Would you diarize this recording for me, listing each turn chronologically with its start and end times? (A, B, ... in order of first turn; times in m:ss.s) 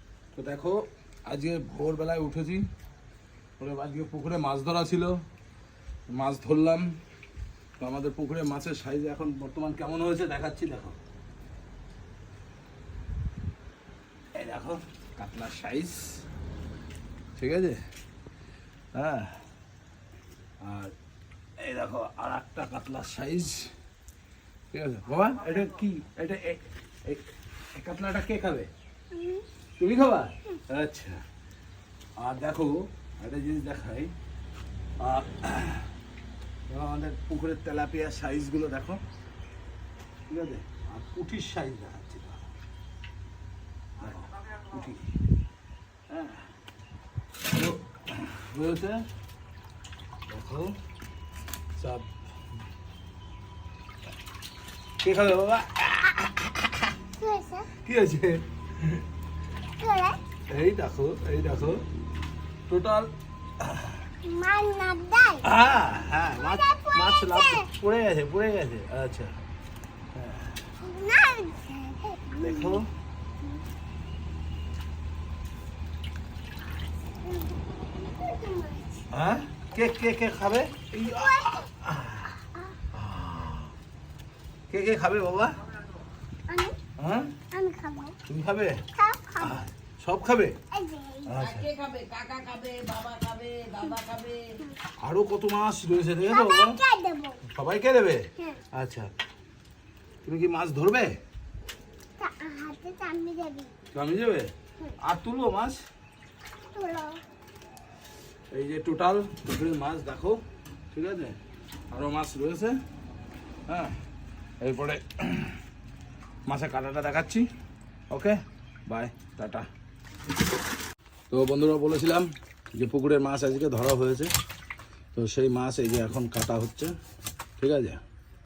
0:00.3-0:02.7 A
0:03.6-0:05.2 A
0:06.1-0:07.0 A
0:07.8-0:11.0 A
0:14.3-0:16.2 A
0:17.4-0:17.8 A
0:18.9-0:19.4 A
0:20.6-0:20.9 A
0:21.6-0:23.7 A
0:24.7-0:28.7 A
0:29.1-0:29.4 B
0:29.8-0:31.2 A
0:32.2-0:34.1 A
0:35.0-0:35.9 A
0:36.7-0:39.0 A
0:40.3-0:42.4 A
0:44.0-0:45.0 A
0:46.1-0:46.4 A
0:47.5-0:49.0 A
0:50.3-0:50.8 A
0:51.7-0:52.1 A
0:55.0-0:56.5 A
0:57.2-0:57.7 B
0:57.7-0:59.0 A
0:59.8-1:00.2 B
1:00.5-1:01.8 A
1:02.7-1:04.0 A
1:04.2-1:05.4 B
1:05.4-1:09.4 A
1:06.3-1:07.7 B
1:10.2-1:10.5 A
1:10.8-1:12.8 B
1:12.4-1:12.9 A
1:17.2-1:19.1 B
1:19.1-1:22.4 A
1:21.1-1:21.7 B
1:22.9-1:23.7 A
1:24.7-1:25.6 A
1:26.5-1:26.8 B
1:27.0-1:27.3 A
1:27.5-1:28.2 B
1:28.3-1:28.8 A
1:28.9-1:29.6 B
1:29.4-1:30.6 A
1:30.7-1:31.4 B
1:31.3-1:31.7 A
1:31.5-1:34.6 C
1:35.0-1:36.8 A
1:36.2-1:37.4 B
1:37.4-1:39.1 A
1:40.2-1:41.2 A
1:42.2-1:43.7 B
1:43.9-1:45.8 A
1:46.7-1:47.2 B
1:48.5-1:50.4 A
1:50.9-1:51.4 A
1:51.9-1:52.8 A
1:53.7-1:54.0 A
1:54.6-1:55.6 A
1:56.5-1:57.5 A
1:58.1-1:59.7 A
2:01.3-2:04.3 A
2:05.1-2:06.9 A
2:07.6-2:08.0 A